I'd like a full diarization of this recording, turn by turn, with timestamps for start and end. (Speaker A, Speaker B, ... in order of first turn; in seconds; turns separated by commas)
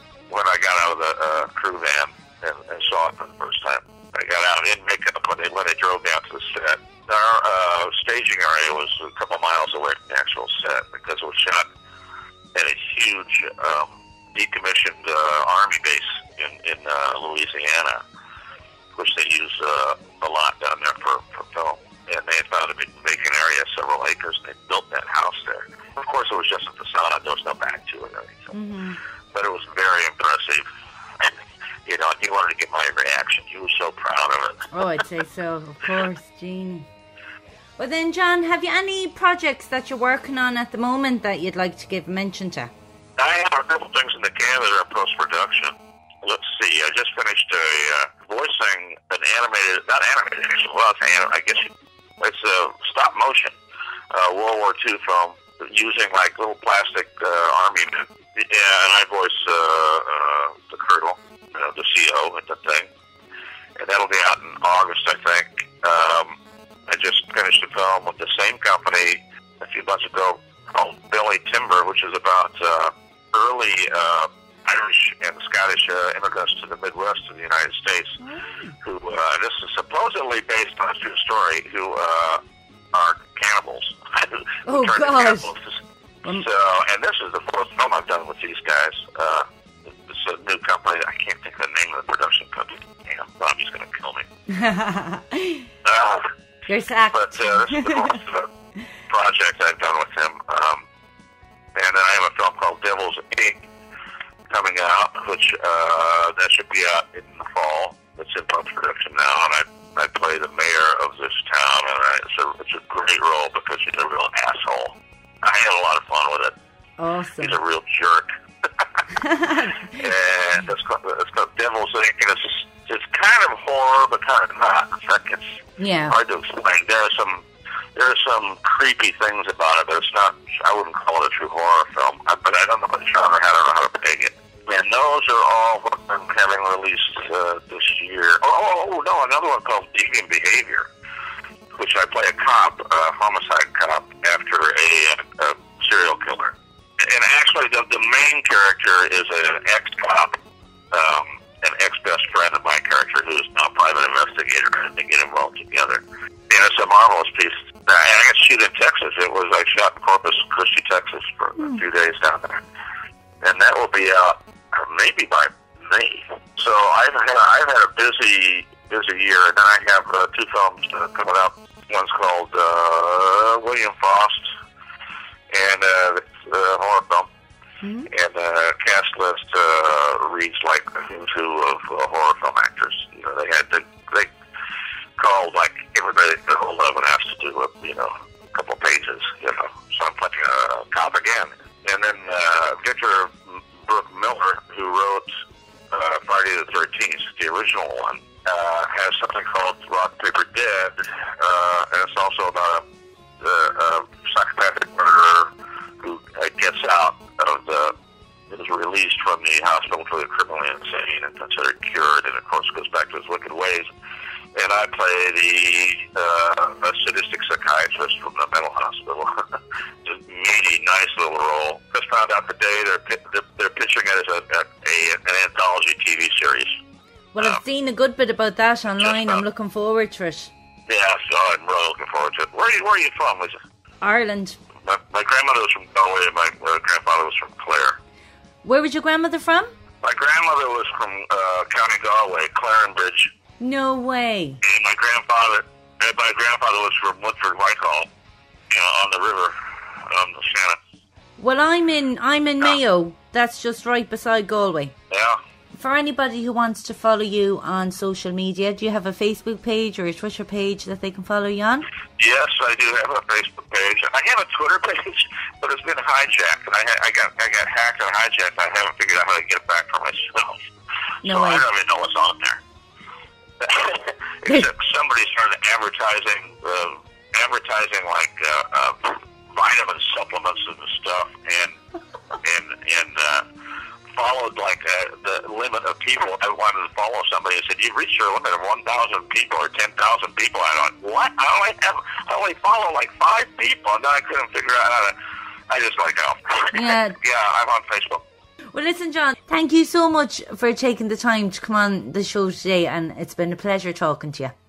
Speaker A: 0.3-11.7, Speaker A: 12.6-18.0, Speaker A: 19.0-28.5, Speaker B: 28.5-29.0, Speaker A: 29.3-30.7, Speaker A: 31.9-34.7, Speaker B: 34.7-36.9, Speaker B: 37.8-42.7, Speaker A: 43.2-53.5, Speaker A: 54.1-62.9, Speaker A: 63.8-66.4, Speaker A: 66.9-78.2, Speaker B: 78.2-78.8, Speaker A: 78.8-82.4, Speaker A: 82.9-85.7, Speaker B: 84.7-85.5, Speaker A: 86.4-89.5, Speaker A: 90.0-94.3, Speaker B: 94.5-95.7, Speaker A: 95.8-96.3, Speaker B: 96.7-98.2, Speaker A: 97.1-98.5, Speaker A: 99.1-100.8, Speaker A: 101.8-103.7, Speaker A: 104.5-116.5, Speaker B: 117.0-117.6, Speaker A: 117.4-118.3, Speaker B: 119.1-120.0, Speaker A: 120.0-125.6, Speaker B: 125.8-126.2, Speaker A: 126.1-127.5, Speaker A: 128.0-140.9, Speaker A: 141.8-150.4, Speaker A: 150.9-162.6, Speaker A: 163.4-174.5, Speaker A: 175.5-177.3, Speaker B: 177.8-178.1, Speaker A: 178.1-184.3, Speaker A: 185.2-195.3, Speaker A: 195.9-202.8, Speaker A: 203.4-207.9, Speaker A: 208.5-213.9, Speaker A: 214.6-219.3, Speaker A: 220.1-226.8, Speaker B: 227.3-230.5, Speaker A: 229.0-229.4, Speaker A: 230.9-233.6, Speaker B: 234.0-234.6, Speaker A: 234.8-238.0, Speaker B: 238.6-239.7, Speaker A: 240.0-243.3, Speaker B: 243.6-244.6, Speaker A: 244.6-248.1, Speaker A: 248.7-249.5, Speaker A: 250.1-250.8, Speaker B: 251.4-254.9, Speaker A: 255.1-255.4, Speaker B: 255.7-261.9, Speaker A: 262.2-270.6, Speaker B: 271.2-271.7, Speaker A: 271.3-272.6, Speaker A: 273.6-281.8, Speaker A: 282.4-283.4, Speaker A: 284.1-295.1, Speaker A: 295.7-298.2, Speaker B: 296.7-297.2, Speaker B: 298.7-304.5